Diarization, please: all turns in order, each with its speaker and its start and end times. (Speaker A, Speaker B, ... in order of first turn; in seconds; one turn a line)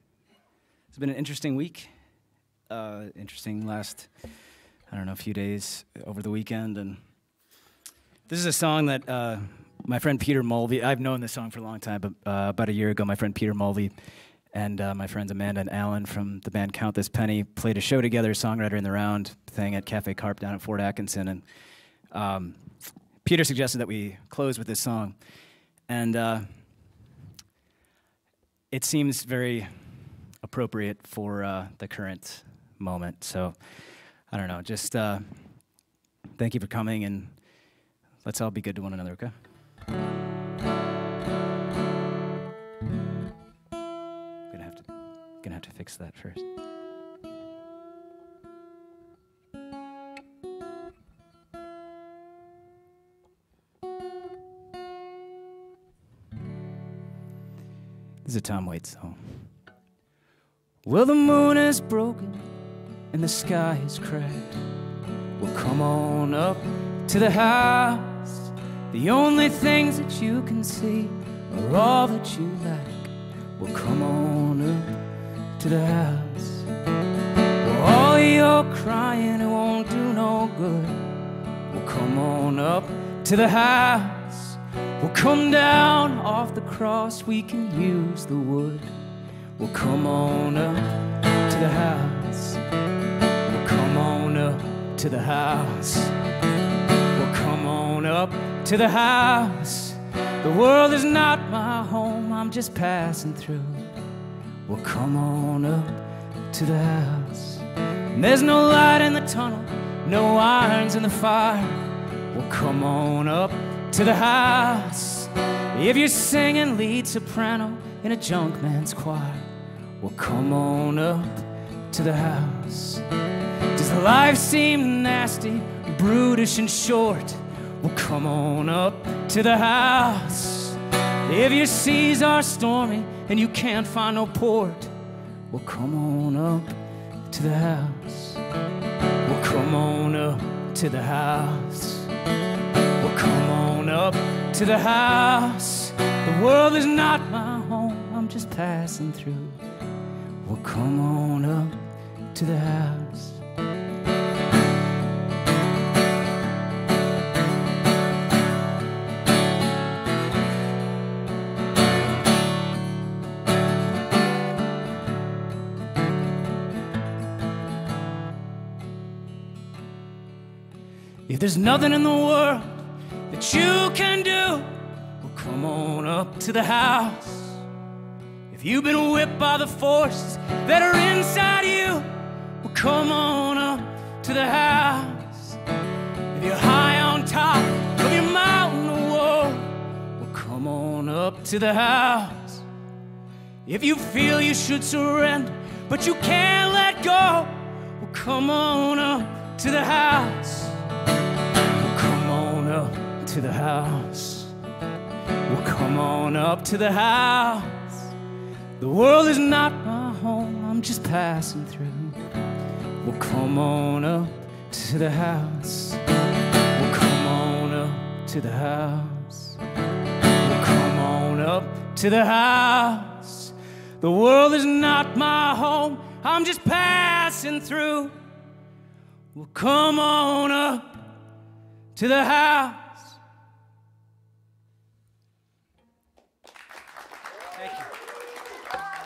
Speaker A: 0.9-1.9
Speaker A: 2.7-4.1
Speaker A: 4.9-7.0
Speaker A: 8.3-13.9
Speaker A: 14.5-21.4
Speaker A: 22.1-22.6
Speaker A: 23.2-25.2
Speaker A: 25.9-26.5
Speaker A: 28.7-35.6
Speaker A: 36.4-37.4
Speaker A: 38.2-39.4
Speaker A: 44.5-44.9
Speaker A: 45.4-46.5
Speaker A: 58.2-59.4
Speaker A: 60.8-62.5
Speaker A: 63.1-64.6
Speaker A: 65.4-75.0
Speaker A: 75.6-76.7
Speaker A: 77.6-81.1
Speaker A: 81.7-88.9
Speaker A: 89.6-92.6
Speaker A: 93.4-96.2
Speaker A: 97.1-103.9
Speaker A: 104.7-119.5
Speaker A: 120.0-123.0
Speaker A: 123.7-134.9
Speaker A: 135.5-138.4
Speaker A: 139.2-142.1
Speaker A: 143.0-149.6
Speaker A: 150.4-153.4
Speaker A: 171.3-177.6
Speaker A: 178.5-185.6
Speaker A: 186.3-192.7
Speaker A: 193.7-200.8
Speaker A: 201.7-204.6
Speaker A: 205.5-208.1
Speaker A: 208.8-212.2
Speaker A: 213.0-216.0
Speaker A: 216.7-219.6
Speaker A: 220.3-228.2
Speaker A: 229.3-231.1
Speaker A: 231.9-233.2
Speaker A: 237.6-237.9